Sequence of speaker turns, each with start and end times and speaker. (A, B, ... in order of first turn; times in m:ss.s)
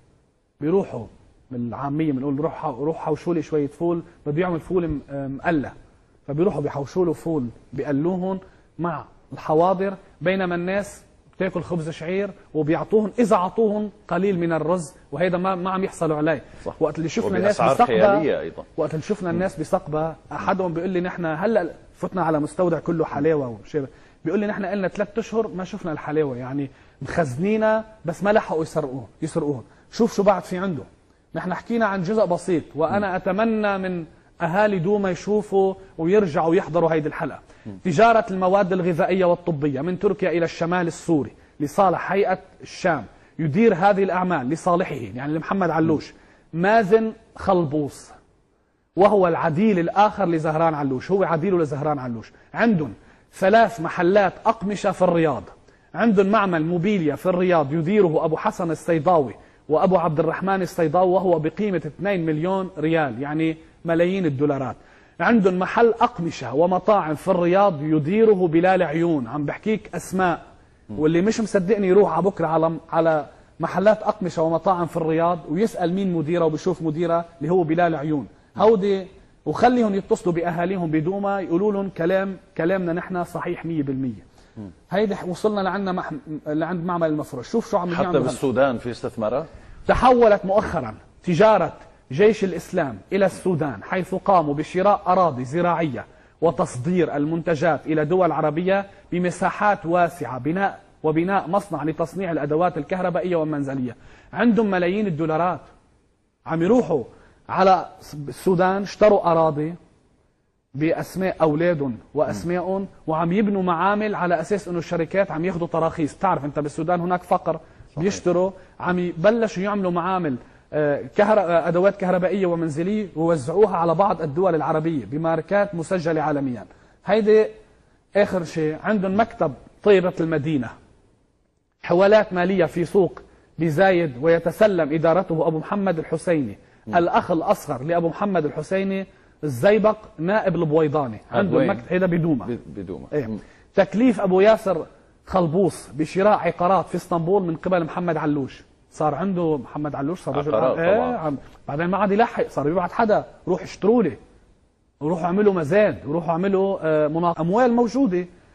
0:00.6-0:05.7 A
0:06.3-0:48.1 A
0:17.2-0:18.7 B
0:49.0-1:10.4 A
1:10.9-1:24.2 A
1:24.9-1:28.4 A
1:27.9-1:29.5 B
1:29.9-1:45.7 A
1:46.4-1:49.8 A
1:50.7-2:07.5 A
2:08.2-2:10.7 A
2:11.8-2:22.5 A
2:21.3-2:21.8 B
2:22.4-2:23.2 B
2:23.1-2:34.2 A
2:30.3-2:31.2 B
2:35.0-2:38.3 A